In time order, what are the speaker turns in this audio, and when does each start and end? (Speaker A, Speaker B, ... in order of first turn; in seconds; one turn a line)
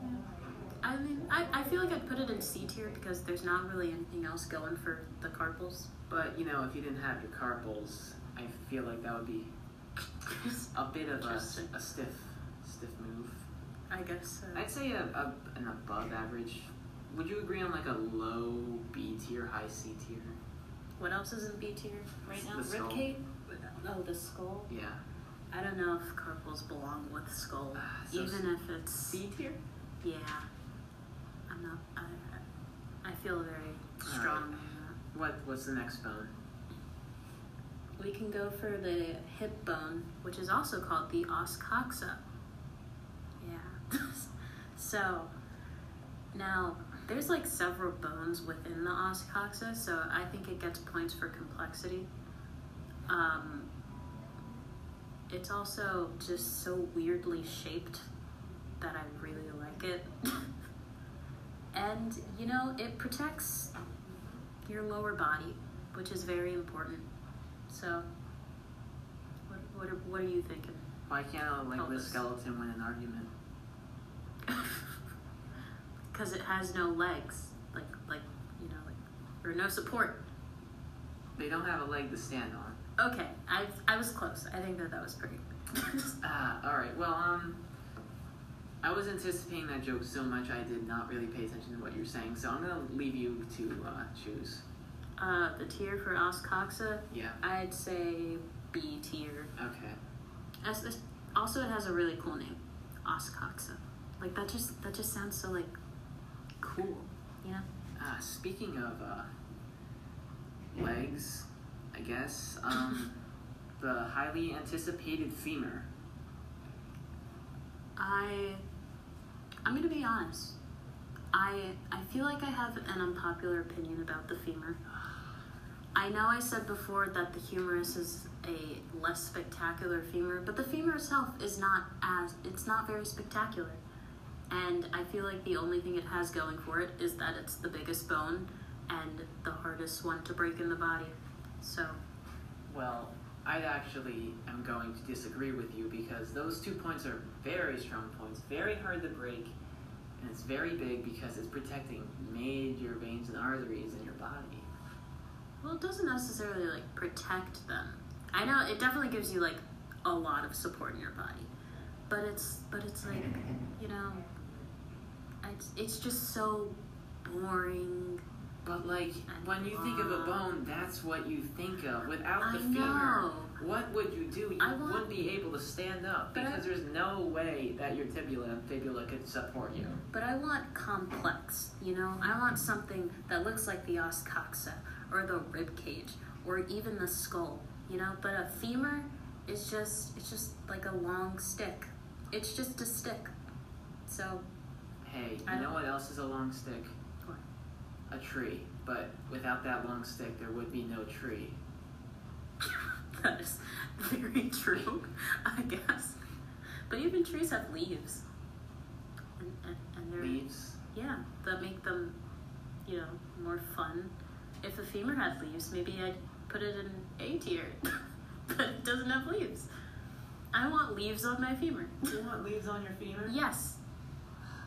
Speaker A: 0.8-5.9
Speaker B: 6.1-9.5
Speaker A: 10.2-11.7
Speaker B: 10.7-13.4
Speaker A: 13.9-14.7
Speaker B: 14.5-20.4
Speaker A: 21.0-24.7
Speaker B: 22.3-23.0
Speaker B: 24.7-25.0
Speaker A: 25.5-29.2
Speaker B: 27.7-28.4
Speaker B: 29.1-29.6
Speaker A: 30.0-30.5
Speaker A: 31.5-32.4
Speaker A: 33.0-35.0
Speaker B: 34.0-36.3
Speaker A: 38.0-42.2
Speaker A: 43.4-45.3
Speaker A: 46.3-52.1
Speaker A: 53.1-53.7
Speaker A: 55.3-58.1
Speaker A: 58.8-60.5
Speaker A: 61.7-63.7
Speaker A: 64.7-67.1
Speaker A: 67.7-68.0
Speaker A: 69.5-70.9
Speaker B: 71.1-73.3
Speaker A: 71.7-72.2
Speaker A: 74.5-74.8
Speaker A: 76.1-80.2
Speaker B: 81.3-82.8
Speaker A: 83.0-86.2
Speaker B: 86.2-87.6
Speaker B: 88.8-94.6
Speaker A: 95.2-99.5
Speaker B: 97.1-97.4
Speaker B: 99.5-100.0
Speaker A: 100.6-105.7
Speaker A: 106.6-107.7
Speaker B: 108.0-109.3
Speaker B: 110.7-113.2
Speaker B: 113.8-115.9
Speaker A: 118.0-118.6
Speaker A: 119.6-120.6
Speaker A: 121.3-124.8
Speaker A: 125.9-133.8
Speaker A: 134.5-142.0
Speaker B: 142.7-149.5
Speaker B: 150.2-154.7
Speaker A: 155.6-161.5
Speaker A: 162.1-164.2
Speaker A: 165.4-168.2
Speaker B: 168.6-180.0
Speaker A: 169.3-170.4
Speaker A: 172.4-173.6
Speaker A: 174.6-175.1
Speaker A: 176.3-176.6
Speaker A: 180.1-193.3
Speaker A: 194.1-194.4
Speaker B: 195.0-196.9
Speaker A: 195.4-195.7
Speaker B: 198.1-201.6
Speaker A: 202.6-206.2
Speaker A: 206.9-208.2
Speaker A: 209.4-212.2
Speaker B: 210.2-210.8
Speaker A: 212.8-219.7
Speaker A: 220.5-222.1
Speaker B: 222.0-223.4
Speaker A: 223.3-223.8